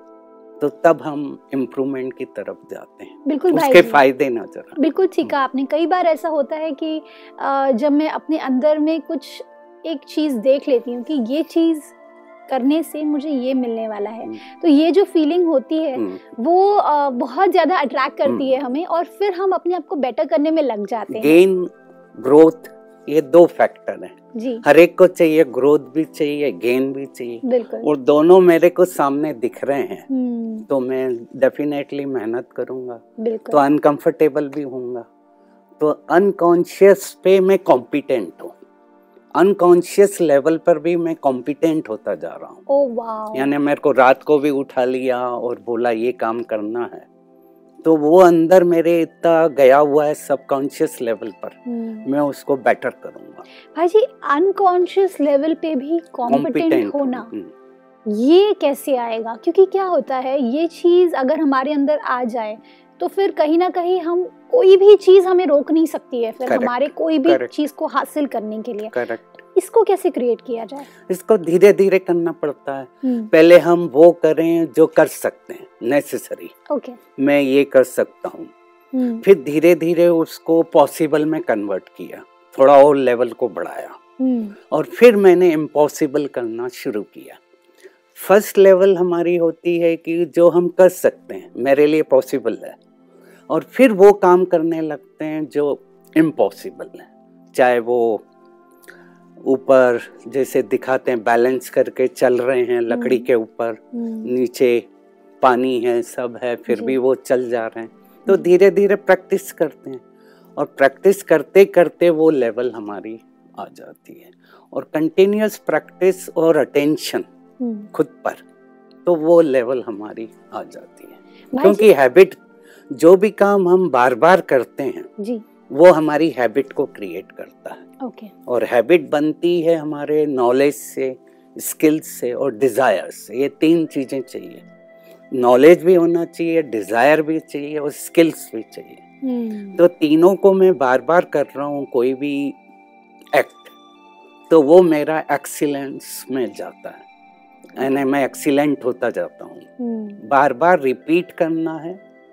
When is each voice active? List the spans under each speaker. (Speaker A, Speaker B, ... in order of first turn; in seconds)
Speaker A: 0.6-5.3, 16.0-16.2, 21.1-30.1, 30.7-35.0, 35.8-38.5, 39.4-42.6, 43.3-47.1, 47.8-53.4, 56.3-57.5, 66.5-67.5, 68.9-69.2, 71.1-76.5, 77.2-78.5, 79.2-84.0, 84.7-87.4, 88.2-92.8, 93.5-98.2, 99.4-104.9, 105.4-110.0, 110.6-117.3, 117.9-118.4, 119.0-122.4, 122.9-125.1, 125.7-127.8, 128.5-134.6, 135.3-139.0, 139.8-142.6, 143.3-143.8, 144.5-147.0, 147.8-149.7, 150.2-152.0
Speaker B: 3.3-4.0, 4.8-11.9, 12.5-21.4, 24.3-24.6, 27.4-27.9, 30.1-30.7, 33.2-33.6, 42.7-43.5, 51.7-52.1, 53.7-57.3, 58.1-68.9, 69.5-70.9, 73.0-73.3, 76.7-77.0, 78.9-79.2, 84.2-84.6, 102.9-103.3, 103.9-104.3, 106.7-107.0, 117.6-117.9, 121.5-121.9, 125.2-125.4, 128.0-128.3, 139.2-139.8, 147.8-148.0, 149.8-150.2